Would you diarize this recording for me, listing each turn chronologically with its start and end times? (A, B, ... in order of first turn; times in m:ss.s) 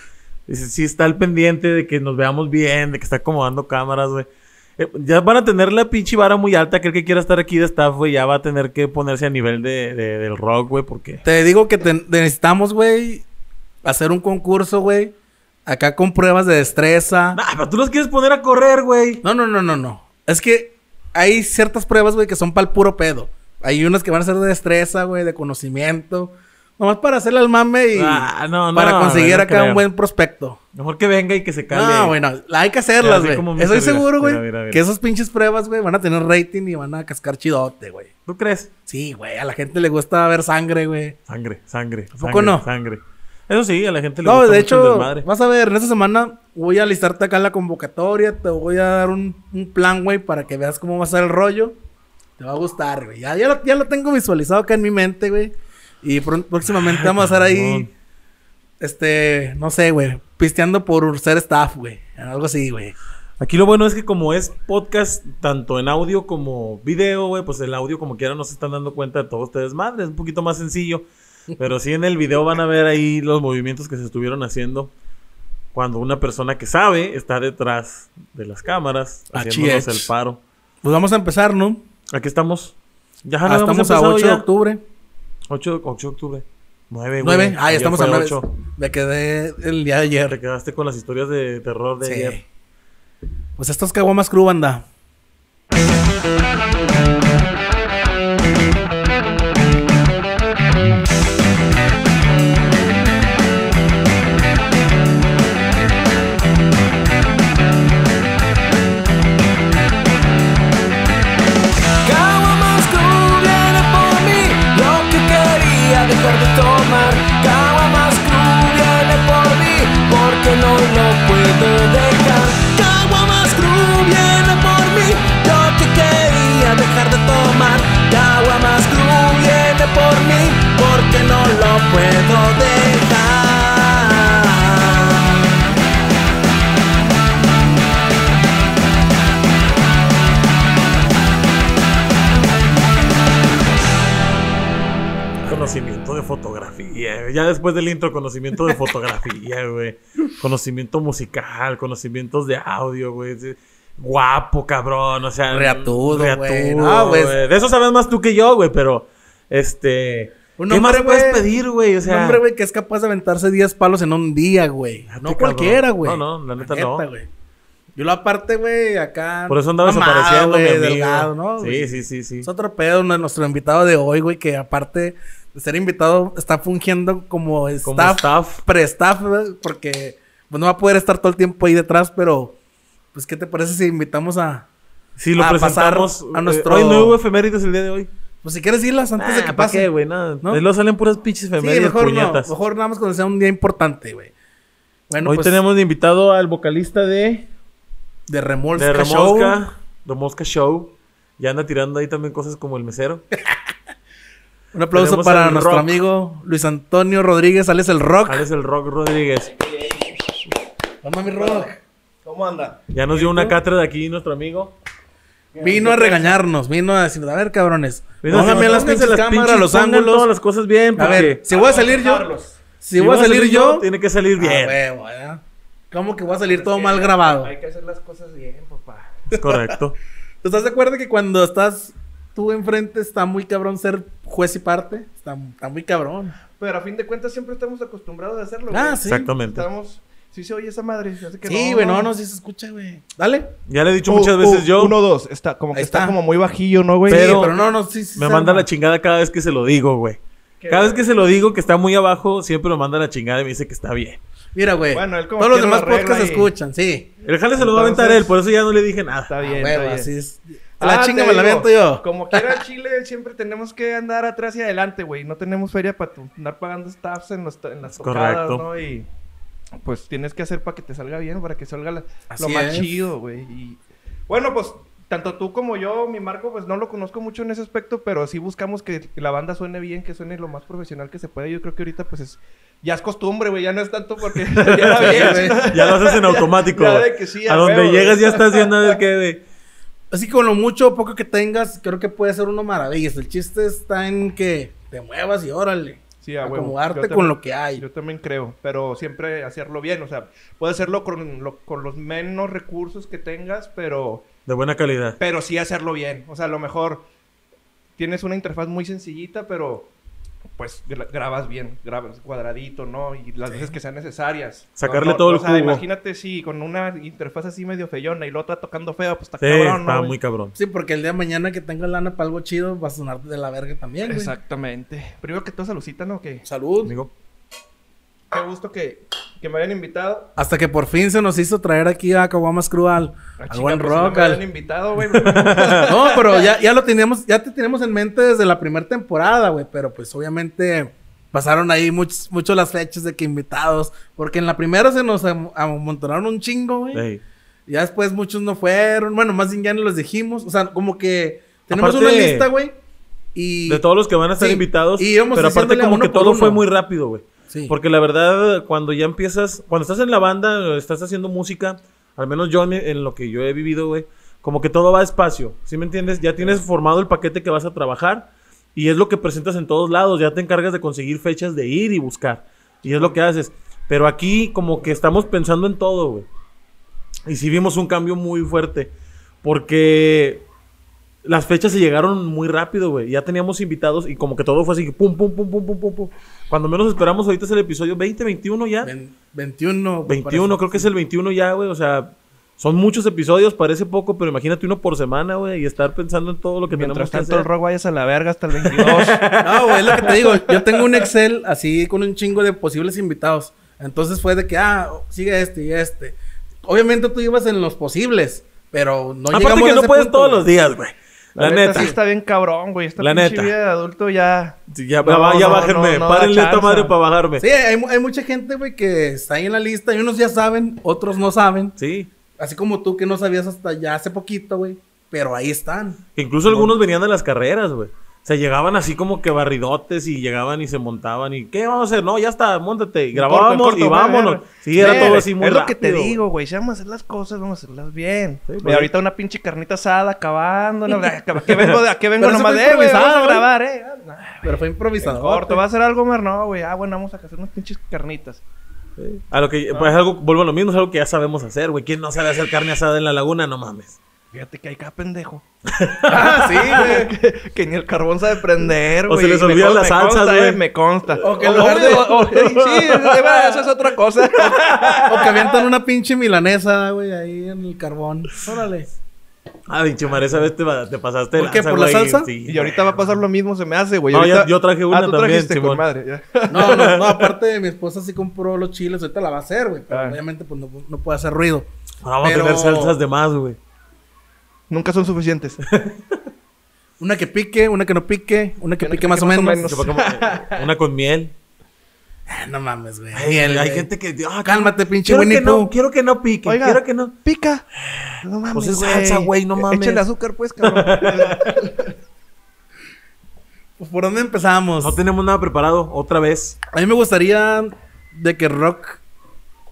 0:00.5-0:11.2 A
0:11.2-0:13.2 B
0:13.8-0:15.1 B
0:15.6-0:17.4 B
0:17.3-0:19.2 A
0:19.2-0:30.6 B
0:27.9-0:29.8 A
0:30.7-0:32.2 A
0:31.7-0:38.1 B
0:33.0-0:34.8 A
0:38.2-0:38.7 A
0:38.9-0:41.2 B
0:41.3-0:45.3 A
0:42.1-0:42.6 B
0:44.2-0:51.8 B
0:52.4-0:57.9 B
0:56.7-0:57.9 A
0:58.8-1:03.0 B
1:03.4-1:14.9 A
1:15.7-1:20.4 A
1:19.3-1:20.1 B
1:20.8-1:21.8 B
1:22.1-1:24.4 A
1:23.4-1:24.8 B
1:25.5-1:28.4 A
1:27.2-1:30.4 B
1:30.3-1:32.4 A
1:32.0-1:32.4 B
1:33.6-1:34.8 B
1:52.0-2:02.7 C
2:02.7-2:15.3 B
2:25.4-2:25.7 B
2:25.4-2:42.4 A
2:35.5-2:37.4 B
2:40.6-2:41.5 B
2:42.0-2:47.3 B
2:45.1-2:47.0 A
2:48.0-3:02.6 B
2:49.5-2:52.5 A
2:57.8-2:58.6 A
3:03.1-3:04.7 B
3:05.2-3:08.1 A
3:05.4-3:07.2 B
3:08.4-3:09.9 B
3:09.2-3:12.5 A
3:11.6-3:14.3 B
3:15.1-3:15.6 B
3:15.2-3:17.5 A
3:18.3-3:19.6 B
3:18.7-3:23.2 A
3:24.7-3:28.4 B
3:24.9-3:25.9 A
3:28.3-3:29.5 A
3:29.4-3:30.4 D
3:31.0-3:31.8 B
3:31.4-3:31.7 D
3:32.2-3:32.8 D
3:32.9-3:34.7 A
3:33.1-3:33.6 B
3:35.5-3:36.4 D
3:35.6-3:40.3 B
3:38.2-3:41.4 A
3:38.3-3:38.8 D
3:41.0-3:42.3 B
3:41.0-3:42.6 D
3:42.8-3:43.9 B
3:42.9-3:44.8 A
3:44.4-3:47.5 B
3:46.3-3:49.1 D
3:49.3-3:49.9 A
3:49.3-3:49.8 B
3:50.4-3:56.4 B
3:56.6-4:02.1 D
3:58.7-3:59.3 B
3:59.0-3:59.6 A
4:01.4-4:03.5 B
4:03.7-4:05.0 A
4:04.0-4:07.5 D
4:05.7-4:06.2 B
4:07.1-4:07.6 A
4:07.1-4:08.6 B
4:08.1-4:14.2 A
4:10.6-4:11.0 D
4:14.5-4:17.1 B
4:14.9-4:16.5 D
4:17.2-4:19.3 A
4:17.6-4:18.4 D
4:19.3-4:20.1 D
4:19.4-4:22.6 B
4:20.8-4:29.1 D
4:28.0-4:28.6 A
4:29.8-4:49.0 D
4:32.3-4:33.0 B
4:44.4-4:49.4 A
4:44.9-4:45.7 B
4:50.1-4:57.8 B
4:56.2-5:04.3 D
5:04.4-5:05.2 A
5:05.2-5:07.0 D
5:08.0-5:09.9 D
5:10.6-5:20.2 D
5:13.5-5:13.7 B
5:14.8-5:15.8 A
5:19.4-5:20.6 A
5:20.5-5:24.3 B
5:24.0-5:26.4 D
5:26.4-5:26.9 B
5:26.8-5:27.1 A
5:28.3-5:30.3 D
5:30.4-5:34.4 B
5:33.4-5:36.5 D
5:35.0-5:35.9 A
5:35.8-5:47.0 B
5:46.9-5:47.2 A
5:47.7-5:52.7 B
5:51.7-5:52.5 A
5:53.3-5:53.8 B
5:53.6-6:16.3 A
5:54.4-5:56.6 B
6:17.2-6:20.4 A
6:21.2-6:28.9 A
6:28.8-6:30.8 B
6:30.0-6:37.5 A
6:36.7-6:39.2 D
6:38.6-6:39.8 A
6:39.4-6:50.4 B
6:40.0-6:41.1 D
6:49.3-6:52.0 A
6:51.4-6:56.9 D
6:53.0-6:53.5 A
6:54.7-6:57.4 A
6:57.4-7:01.8 B
7:01.8-7:02.1 A
7:02.4-7:06.7 B
7:06.2-7:16.2 A
7:13.1-7:28.4 D
7:14.8-7:15.3 B
7:18.5-7:18.9 A
7:21.5-7:21.8 A
7:22.2-7:23.4 B
7:24.4-7:25.6 B
7:29.0-7:34.0 A
7:34.3-7:35.4 D
7:35.6-7:36.3 A
7:36.1-7:37.1 B
7:36.1-7:45.7 D
7:39.0-7:43.3 A
7:41.2-7:42.7 B
7:44.3-7:45.0 A
7:45.0-7:48.9 B
7:49.7-7:53.2 A
7:51.4-7:52.3 B
7:52.4-7:57.0 D
7:54.1-7:55.8 A
7:56.5-8:01.7 B
7:56.6-7:57.2 A
7:59.9-8:00.2 D
8:02.0-8:03.6 A
8:02.2-8:03.0 B
8:04.7-8:05.6 D
8:05.6-8:06.2 A
8:07.0-8:09.7 B
8:08.8-8:10.7 D
8:09.6-8:11.3 A
8:12.3-8:13.9 B
8:13.1-8:17.1 A
8:14.4-8:15.7 B
8:16.4-8:17.6 D
8:17.8-8:20.1 A
8:18.2-8:21.9 D
8:20.6-8:21.6 A
8:23.8-8:25.0 B
8:24.8-8:26.6 A
8:26.7-8:29.0 B